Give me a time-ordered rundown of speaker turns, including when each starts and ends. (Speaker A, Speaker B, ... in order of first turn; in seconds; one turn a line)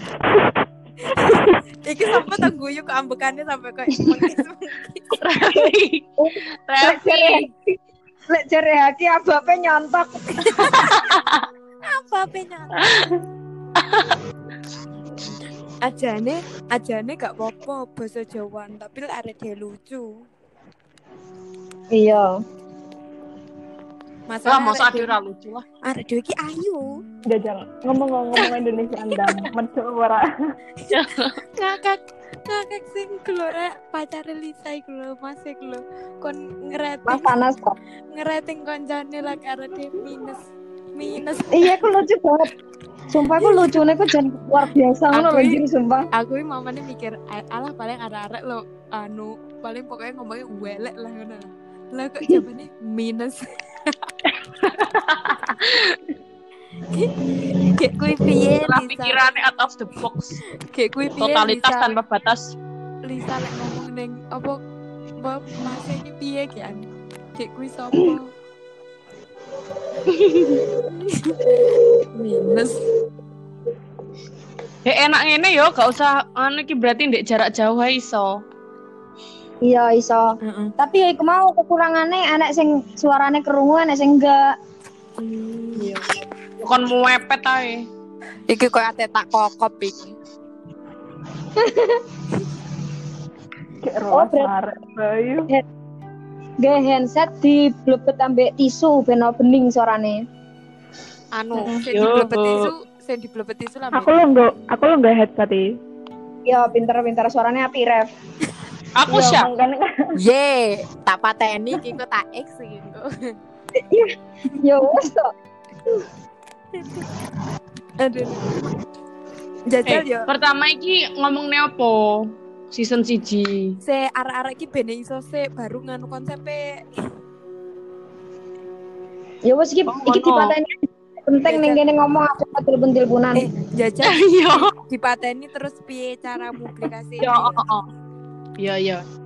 Speaker A: 1.1-5.2
Speaker B: 5.2-6.1
Speaker C: 6.2-7.5
Speaker B: 6.7-7.5
Speaker C: 8.3-10.1
Speaker B: 10.6-11.4
Speaker A: 11.9-13.2
Speaker B: 12.8-13.1
Speaker B: 13.9-14.2
Speaker A: 15.8-20.1
Speaker C: 21.9-22.3
Speaker A: 24.3-25.1
Speaker B: 24.4-25.6
Speaker A: 25.8-27.0
Speaker D: 27.3-30.2
Speaker A: 29.1-29.3
Speaker B: 30.9-31.4
Speaker A: 31.6-37.5
Speaker C: 37.1-37.8
Speaker A: 38.1-40.4
Speaker A: 41.0-41.8
Speaker C: 41.5-42.5
Speaker C: 43.1-46.1
Speaker A: 43.4-43.8
Speaker A: 45.1-45.6
Speaker A: 46.1-53.4
Speaker B: 54.6-56.0
Speaker A: 57.8-59.2
Speaker B: 58.6-60.4
Speaker A: 60.7-62.0
Speaker B: 61.2-62.6
Speaker A: 63.0-64.6
Speaker A: 65.2-66.8
Speaker A: 67.4-68.3
Speaker A: 70.9-71.3
Speaker A: 72.1-72.8
Speaker B: 74.8-78.4
Speaker C: 79.6-84.5
Speaker A: 80.4-80.8
Speaker A: 85.2-86.0
Speaker B: 85.8-86.0
Speaker B: 86.6-87.9
Speaker A: 88.5-90.1
Speaker C: 91.6-92.0
Speaker D: 93.8-95.5
Speaker C: 94.1-94.5
Speaker C: 96.6-100.2
Speaker A: 101.3-104.1
Speaker D: 101.6-101.8
Speaker B: 101.9-102.7
Speaker D: 103.9-105.7
Speaker C: 106.5-108.1
Speaker B: 109.0-109.5
Speaker D: 109.1-110.0
Speaker A: 110.2-113.1
Speaker C: 113.8-114.1
Speaker C: 114.6-115.3
Speaker A: 118.0-118.5
Speaker A: 119.7-120.3
Speaker B: 119.8-123.8
Speaker A: 123.8-126.8
Speaker C: 129.4-130.7
Speaker B: 129.9-130.6
Speaker C: 131.3-133.5
Speaker A: 131.4-131.8
Speaker A: 133.3-137.6
Speaker B: 134.0-134.7
Speaker B: 137.2-137.9
Speaker B: 138.6-139.1